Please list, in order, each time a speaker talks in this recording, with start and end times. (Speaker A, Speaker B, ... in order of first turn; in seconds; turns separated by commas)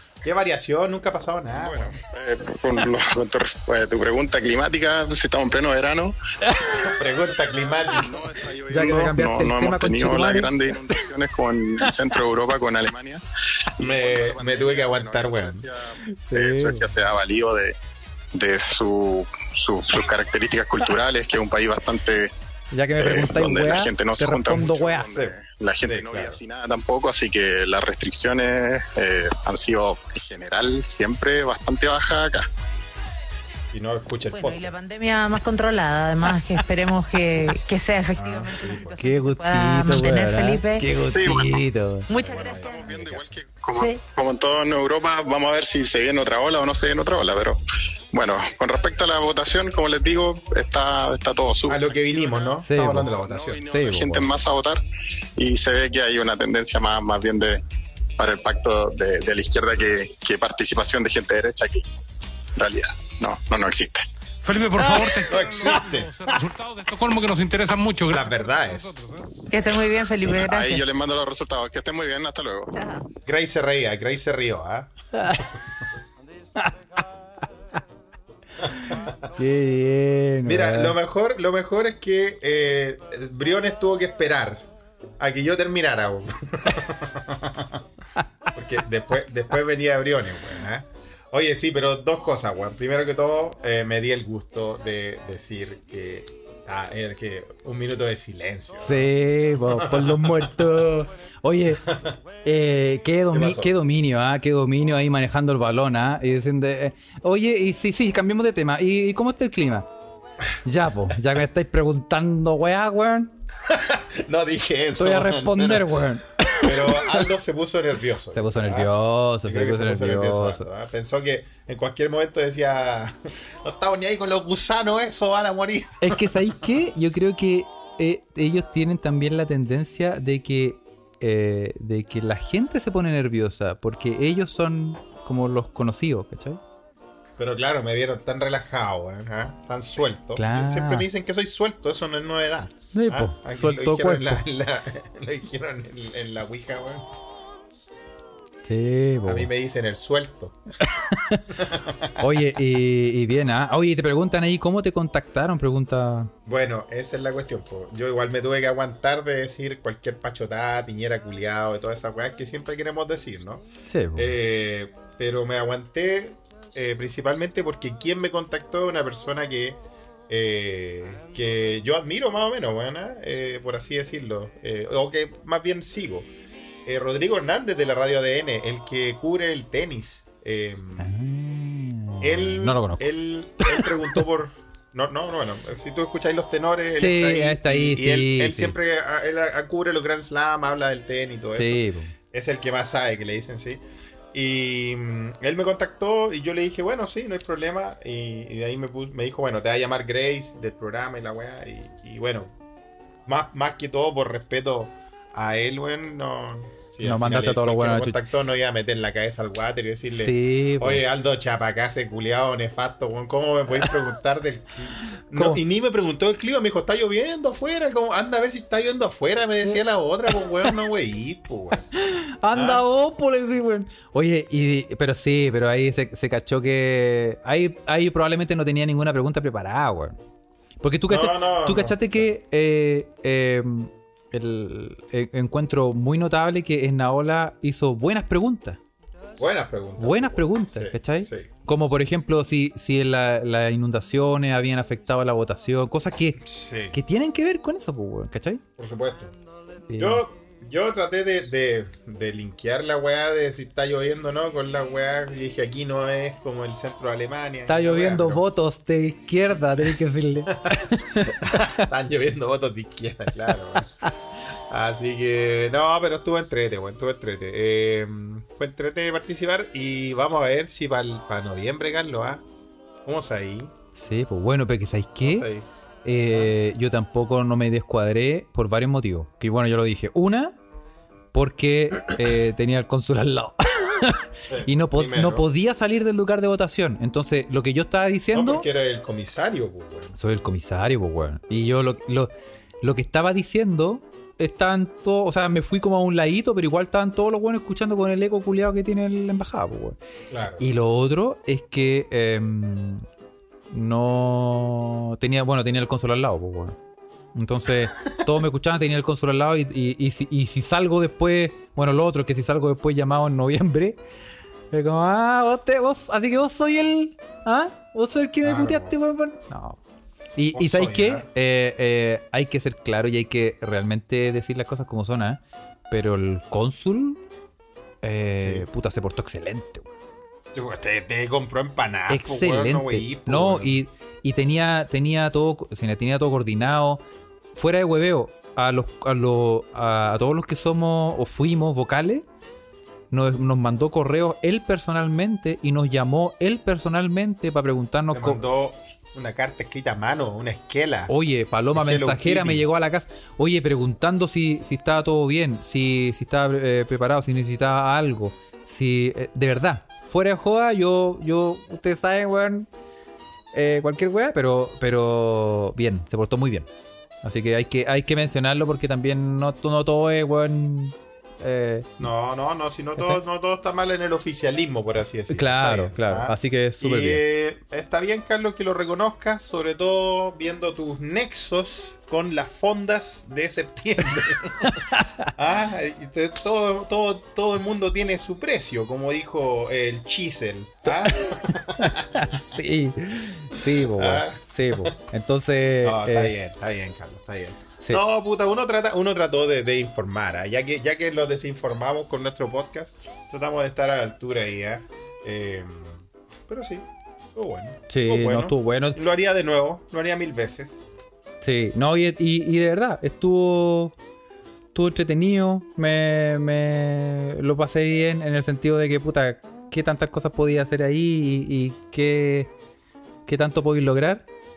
Speaker A: 0.2-2.0, Speaker B: 1.5-6.2, Speaker C: 6.4-6.8, Speaker A: 6.7-8.3, Speaker B: 7.4-13.2, Speaker C: 8.7-11.0, Speaker B: 13.8-17.8, Speaker A: 13.8-15.6, Speaker C: 16.1-16.9, Speaker B: 18.3-22.3, Speaker C: 22.7-25.1, Speaker B: 22.9-32.5, Speaker A: 25.1-26.4, Speaker A: 33.7-34.8, Speaker D: 34.3-40.9, Speaker A: 38.1-39.0, Speaker C: 38.9-42.1, Speaker B: 41.0-41.6, Speaker D: 42.1-42.9, Speaker B: 42.1-47.6, Speaker A: 42.1-43.4, Speaker D: 43.7-44.0, Speaker B: 48.1-54.8, Speaker A: 51.7-53.6, Speaker C: 52.6-53.1, Speaker C: 53.6-54.4, Speaker B: 55.4-57.6, Speaker B: 58.2-61.9, Speaker B: 62.5-64.0, Speaker E: 64.4-69.2, Speaker C: 64.8-65.1, Speaker A: 65.2-66.1, Speaker C: 65.6-66.4, Speaker A: 68.1-69.0, Speaker D: 69.5-70.9, Speaker B: 70.3-72.7, Speaker D: 72.7-73.1, Speaker A: 73.2-75.4, Speaker C: 75.2-75.4, Speaker C: 78.6-80.9, Speaker A: 80.4-84.7, Speaker A: 85.2-87.8, Speaker A: 88.5-100.7, Speaker C: 98.8-101.9, Speaker A: 101.8-102.1, Speaker C: 102.4-109.9, Speaker A: 103.3-103.7, Speaker C: 110.6-113.3, Speaker A: 113.7-116.0, Speaker C: 115.0-117.2, Speaker A: 116.6-126.7, Speaker C: 118.3-120.7, Speaker C: 126.0-136.6, Speaker A: 137.4-147.1, Speaker C: 140.3-141.1, Speaker C: 142.9-144.4, Speaker C: 148.6-149.5, Speaker A: 149.2-150.6, Speaker C: 150.8-151.4, Speaker A: 151.5-152.5, Speaker C: 152.2-156.3, Speaker A: 156.4-163.6, Speaker C: 163.8-164.4, Speaker A: 164.1-176.3, Speaker A: 176.8-181.1, Speaker C: 181.0-183.0, Speaker A: 182.2-193.8, Speaker C: 183.6-183.9, Speaker C: 186.9-188.8, Speaker C: 191.6-192.1, Speaker A: 194.3-202.5, Speaker A: 203.2-221.8, Speaker C: 207.0-208.2, Speaker C: 210.1-211.0, Speaker C: 215.3-215.6, Speaker C: 220.3-220.7, Speaker C: 221.9-230.2, Speaker A: 222.5-222.8, Speaker C: 230.8-238.8, Speaker A: 231.1-232.3, Speaker A: 239.4-241.5, Speaker C: 240.0-246.4, Speaker A: 246.4-246.9, Speaker C: 246.9-248.6, Speaker A: 248.8-249.3, Speaker C: 249.9-250.2, Speaker A: 249.9-258.4, Speaker C: 257.7-261.4, Speaker A: 260.5-264.1, Speaker A: 264.7-272.4, Speaker A: 273.0-273.7, Speaker C: 273.9-275.5, Speaker A: 275.2-275.7, Speaker C: 276.0-280.6, Speaker C: 281.3-288.6, Speaker A: 284.5-285.5, Speaker A: 288.3-290.1, Speaker C: 290.2-300.0, Speaker A: 300.3-300.7, Speaker C: 300.6-303.0, Speaker C: 303.7-306.8, Speaker C: 307.3-314.0, Speaker C: 314.7-319.8, Speaker A: 318.4-318.9, Speaker C: 320.4-327.2, Speaker A: 320.5-321.3, Speaker C: 328.0-329.9, Speaker A: 328.4-328.7, Speaker A: 330.5-333.8, Speaker C: 332.1-337.0, Speaker C: 337.5-342.2, Speaker C: 343.1-348.4, Speaker A: 348.1-351.1, Speaker C: 351.1-362.7, Speaker A: 351.7-352.7, Speaker C: 363.5-366.7, Speaker C: 367.2-372.1, Speaker A: 372.0-392.4, Speaker C: 375.3-377.2, Speaker C: 384.6-385.3, Speaker C: 390.8-396.3, Speaker A: 393.5-395.0, Speaker A: 395.8-410.8, Speaker C: 407.9-409.0, Speaker C: 411.4-413.9, Speaker C: 414.7-422.5, Speaker C: 423.2-424.2